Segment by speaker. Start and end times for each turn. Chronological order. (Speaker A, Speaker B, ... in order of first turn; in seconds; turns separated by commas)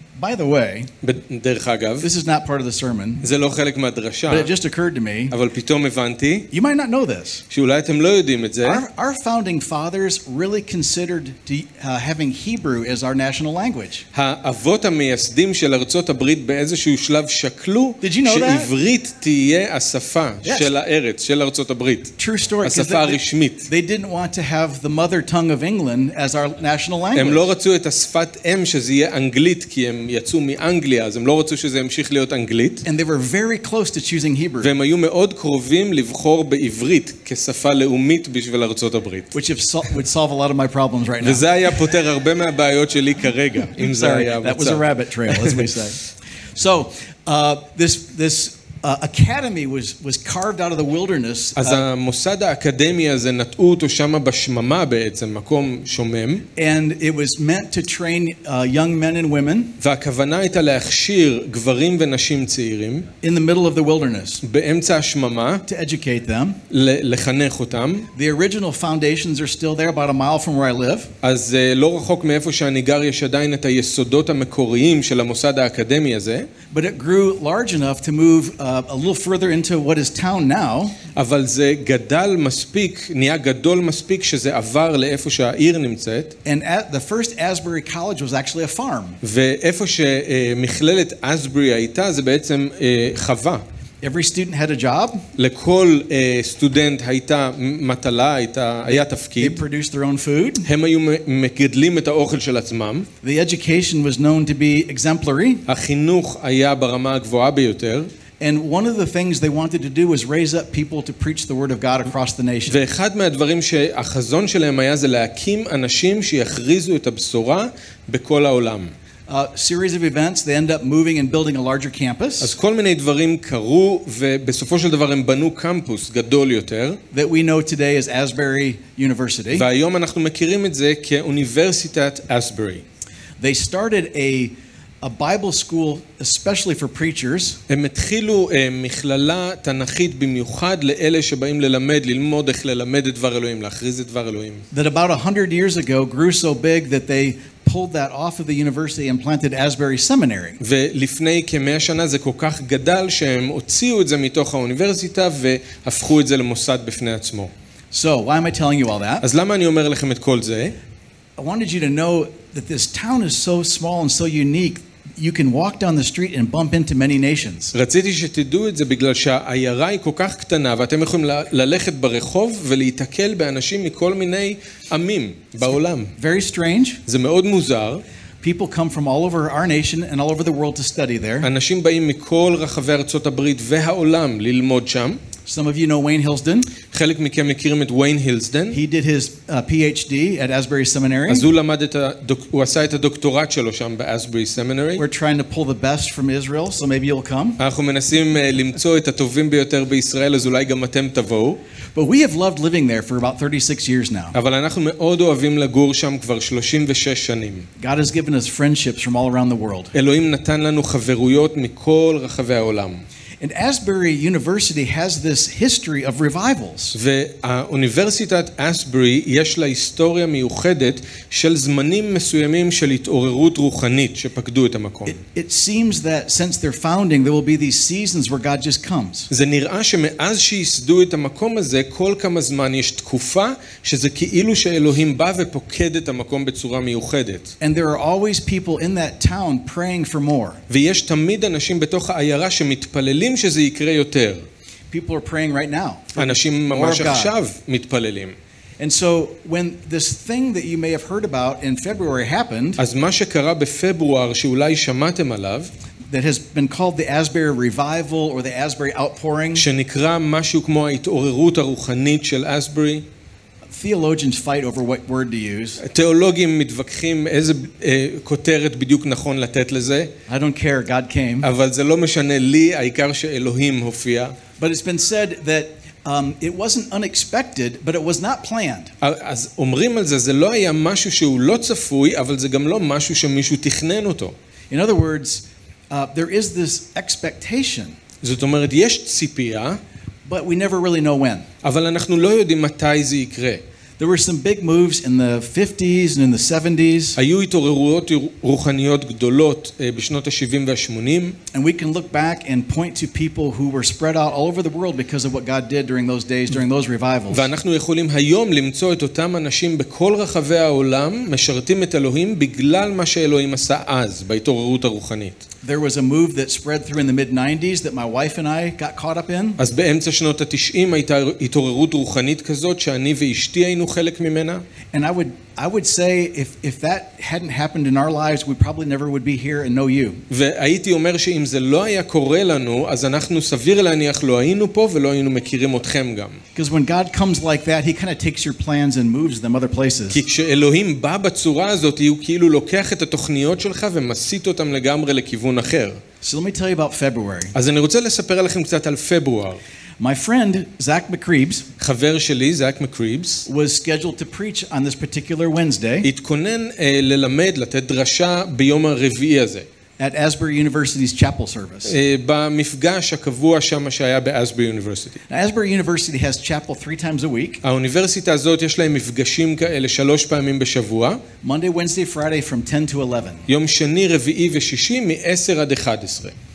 Speaker A: 0.2-0.9, Speaker B: 1.0-2.1, Speaker A: 2.0-3.3, Speaker B: 3.2-4.5, Speaker A: 4.3-5.3, Speaker B: 5.3-6.5, Speaker A: 6.5-7.4, Speaker B: 7.5-8.8, Speaker A: 8.6-14.1, Speaker B: 14.1-23.7, Speaker A: 18.0-18.7, Speaker A: 20.4-20.7, Speaker A: 22.2-27.5, Speaker B: 27.1-32.8, Speaker A: 32.8-34.7, Speaker B: 34.6-39.3, Speaker A: 39.3-41.5, Speaker B: 41.2-45.6, Speaker A: 43.8-51.9, Speaker B: 51.5-56.5, Speaker A: 56.5-59.8, Speaker B: 59.8-63.1, Speaker A: 63.2-64.4, Speaker B: 64.4-65.6, Speaker A: 65.7-66.6, Speaker B: 66.7-68.1, Speaker A: 68.1-71.1, Speaker B: 71.2-76.5, Speaker A: 76.7-81.0, Speaker B: 81.1-86.3, Speaker A: 86.4-89.2, Speaker B: 89.2-93.6, Speaker A: 94.0-95.2, Speaker B: 95.3-99.6, Speaker A: 99.3-100.7, Speaker B: 100.6-103.1, Speaker A: 103.2-105.6, Speaker B: 105.7-108.1, Speaker A: 108.4-112.8, Speaker B: 112.7-118.9, Speaker A: 119.3-122.5, Speaker B: 122.4-127.0, Speaker A: 127.1-129.7, Speaker B: 129.5-132.8, Speaker A: 133.4-137.6, Speaker B: 137.7-144.6, Speaker A: 144.7-150.6, Speaker B: 150.6-157.5, Speaker A: 157.9-159.2, Speaker B: 159.2-160.8, Speaker A: 161.4-167.7, Speaker B: 167.7-176.1, Speaker A: 176.2-177.0, Speaker B: 177.1-178.0, Speaker A: 178.4-181.5, Speaker B: 181.4-185.2, Speaker A: 185.4-186.7, Speaker B: 186.8-188.8, Speaker A: 188.7-191.5, Speaker B: 191.3-195.0, Speaker A: 195.0-197.6, Speaker B: 197.6-201.6, Speaker A: 201.9-204.3, Speaker B: 204.3-207.7, Speaker A: 207.8-209.9, Speaker B: 209.9-213.0, Speaker A: 213.4-217.0, Speaker B: 216.9-225.2, Speaker A: 225.1-229.3, Speaker B: 229.3-237.5, Speaker A: 237.6-240.6, Speaker B: 240.7-244.4, Speaker A: 244.9-247.3, Speaker B: 246.2-248.3, Speaker A: 248.8-252.8, Speaker B: 252.8-255.7, Speaker A: 256.1-259.6, Speaker B: 259.5-263.0, Speaker A: 263.7-265.8, Speaker B: 265.8-270.1, Speaker A: 270.3-271.5, Speaker B: 271.4-274.4, Speaker A: 274.6-278.9, Speaker B: 279.0-284.4, Speaker A: 284.7-288.0, Speaker B: 288.2-289.8, Speaker A: 290.2-291.5, Speaker B: 291.6-293.6, Speaker A: 294.0-297.2, Speaker B: 297.2-301.4, Speaker A: 301.5-307.5, Speaker B: 307.3-315.4, Speaker A: 315.6-319.6, Speaker B: 319.6-324.6, Speaker A: 324.9-330.2, Speaker B: 330.3-336.4, Speaker A: 336.5-340.2, Speaker B: 340.1-346.0, Speaker A: 346.2-347.5, Speaker B: 347.5-349.6, Speaker A: 350.0-351.7, Speaker B: 351.8-353.4, Speaker A: 353.5-356.1, Speaker B: 356.0-359.6, Speaker A: 360.0-362.0, Speaker B: 361.9-365.2, Speaker A: 365.3-367.6, Speaker B: 367.6-371.2, Speaker A: 371.4-373.5, Speaker B: 373.5-376.3